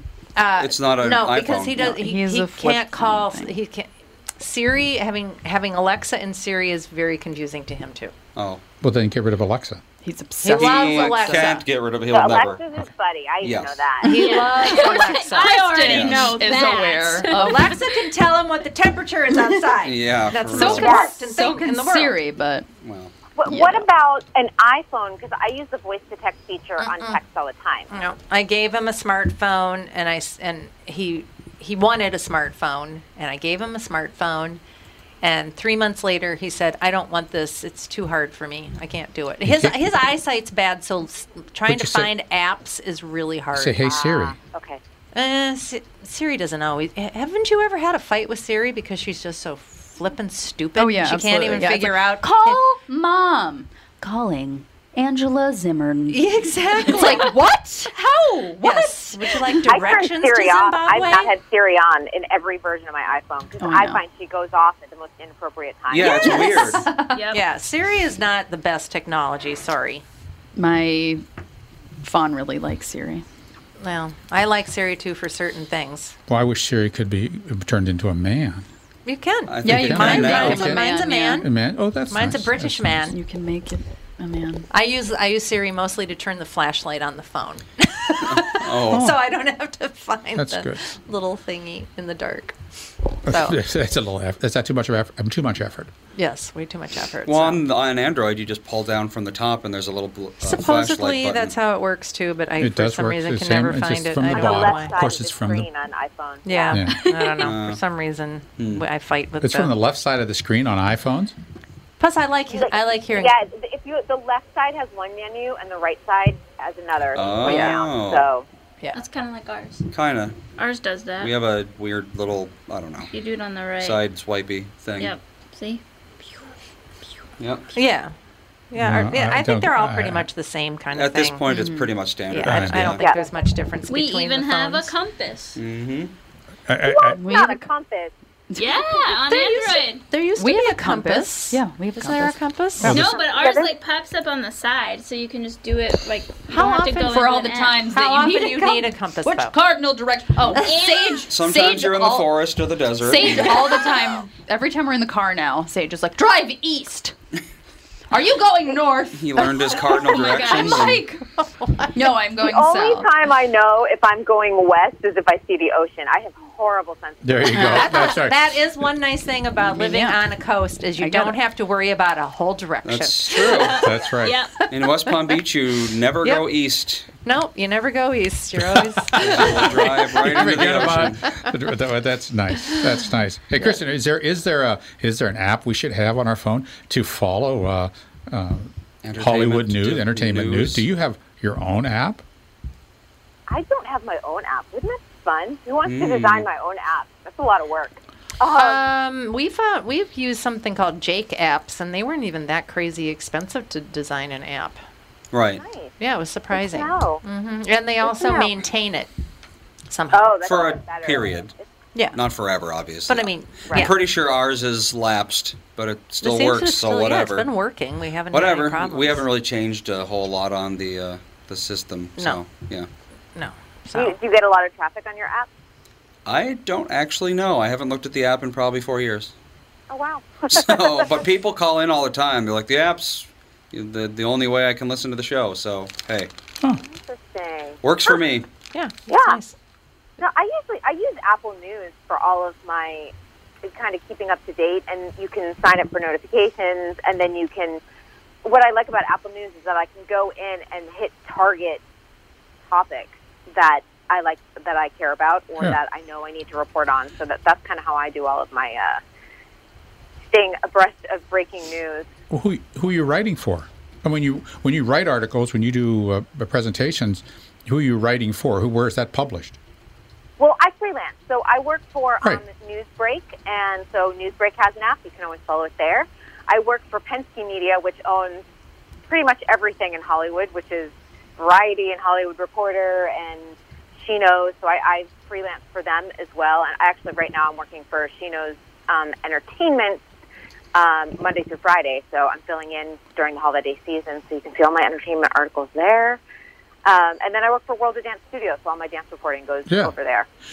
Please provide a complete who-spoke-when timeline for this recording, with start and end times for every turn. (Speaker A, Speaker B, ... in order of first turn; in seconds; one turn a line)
Speaker A: 0.4-8.1
Speaker B: 0.6-1.8
Speaker C: 1.8-3.5
Speaker B: 8.4-8.6
Speaker D: 8.8-9.8
Speaker C: 10.0-11.4
Speaker A: 10.4-11.7
Speaker B: 10.5-12.6
Speaker E: 12.1-14.1
Speaker B: 13.4-13.8
Speaker A: 14.0-16.3
Speaker C: 14.1-17.8
Speaker F: 14.1-18.1
Speaker B: 15.9-16.3
Speaker A: 17.3-22.2
Speaker B: 19.8-21.0
Speaker C: 20.5-22.7
Speaker E: 20.8-21.1
Speaker B: 22.8-23.1
Speaker E: 23.4-27.9
Speaker C: 23.5-23.8
Speaker A: 26.8-27.2
Speaker A: 27.9-34.6
Speaker A: 35.2-43.9
Speaker D: 39.5-39.8
Speaker D: 41.7-42.1
Speaker D: 43.5-44.4
Speaker E: 43.8-44.8
Speaker A: 45.1-52.6
Speaker C: 50.8-59.0
Speaker A: 56.1-61.3
Speaker E: 59.7-66.5
Speaker C: 63.6-64.0
Speaker B: 65.9-66.9
Speaker C: 66.0-67.2
Speaker F: 67.1-67.4
Speaker A: 67.3-70.0
Speaker C: 70.6-71.2
Speaker C: 72.0-73.2
Speaker A: 73.8-76.2
Speaker D: 76.3-78.7
Speaker A: 79.1-81.5
Speaker B: 79.5-80.7
Speaker C: 79.6-81.5
Speaker D: 79.7-83.1
Speaker A: 82.1-83.2
Speaker C: 83.1-84.7
Speaker A: 84.7-92.6
Speaker B: 88.3-89.1
Speaker D: 90.4-90.8
Speaker D: 93.3-95.9
Speaker A: 93.3-93.6
Speaker A: 96.2-97.6
Speaker B: 97.3-101.5
Speaker A: 100.4-105.0
Speaker D: 102.6-105.7
Speaker E: 104.3-106.8
Speaker A: 106.5-109.7
Speaker D: 106.7-107.1
Speaker B: 107.4-107.8
Speaker B: 108.6-108.8
Speaker D: 109.4-111.3
Speaker A: 112.0-113.4
Speaker E: 112.5-118.5
Speaker B: 117.1-118.3
Speaker A: 117.3-117.8
Speaker F: 118.9-119.8
Speaker B: 119.9-120.4
Speaker F: 120.6-121.3
Speaker B: 121.2-123.1
Speaker F: 123.1-124.0
Speaker B: 123.8-125.2
Speaker F: 125.0-125.8
Speaker B: 127.4-127.7
Speaker A: 127.7-128.1
Speaker A: 128.7-131.4
Speaker D: 128.8-130.3
Speaker B: 130.9-133.0
Speaker C: 131.5-131.9
Speaker A: 132.3-134.9
Speaker D: 132.4-133.0
Speaker E: 133.0-133.3
Speaker F: 133.9-135.6
Speaker B: 135.6-136.1
Speaker D: 136.7-137.2
Speaker E: 137.0-138.1
Speaker C: 137.2-137.7
Speaker C: 138.5-139.8
Speaker F: 138.6-140.0
Speaker A: 139.8-143.0
Speaker C: 140.3-142.4
Speaker D: 142.8-143.2
Speaker F: 142.9-147.8
Speaker E: 142.9-143.7
Speaker A: 146.5-147.2
Speaker C: 147.0-152.3
Speaker A: 147.9-149.6
Speaker F: 150.6-151.2
Speaker B: 151.3-153.5
Speaker C: 153.0-157.1
Speaker C: 158.1-161.2
Speaker B: 159.2-161.0
Speaker F: 160.1-160.8
Speaker A: 161.3-162.1
Speaker C: 161.9-163.1
Speaker E: 162.4-168.1
Speaker D: 167.2-168.4
Speaker A: 167.6-173.6
Speaker C: 169.7-170.2
Speaker C: 171.0-171.4
Speaker B: 172.8-173.8
Speaker F: 173.4-174.6
Speaker D: 173.8-174.3
Speaker B: 174.7-177.1
Speaker A: 177.2-179.9
Speaker B: 179.2-181.2
Speaker D: 180.2-192.2
Speaker A: 180.4-181.1
Speaker B: 189.0-190.8
Speaker E: 193.5-198.8
Speaker B: 195.8-196.5
Speaker A: 198.5-204.8
Speaker B: 205.3-205.6
Speaker E: 205.6-205.9
Speaker A: 206.0-209.1
Speaker E: 206.5-207.2
Speaker E: 208.0-208.5
Speaker A: 209.9-210.4
Speaker E: 210.1-211.6
Speaker B: 210.4-211.5
Speaker B: 212.2-217.5
Speaker A: 213.1-214.0
Speaker A: 216.2-219.3
Speaker B: 218.3-222.9
Speaker A: 223.3-224.2
Speaker E: 223.9-225.5
Speaker B: 226.3-229.3
Speaker E: 229.9-231.1
Speaker B: 230.5-236.3
Speaker E: 236.8-238.2
Speaker B: 237.8-238.5
Speaker A: 238.7-239.6
Speaker E: 239.1-239.4
Speaker E: 240.2-243.1
Speaker E: 243.6-247.8
Speaker E: 248.4-251.8
Speaker E: 252.7-259.0
Speaker E: 260.3-262.1
Speaker D: 262.3-269.6
Speaker E: 270.4-278.4
Speaker E: 279.1-290.0
Speaker E: 290.8-296.2
Speaker E: 296.9-300.3
Speaker D: 299.7-299.9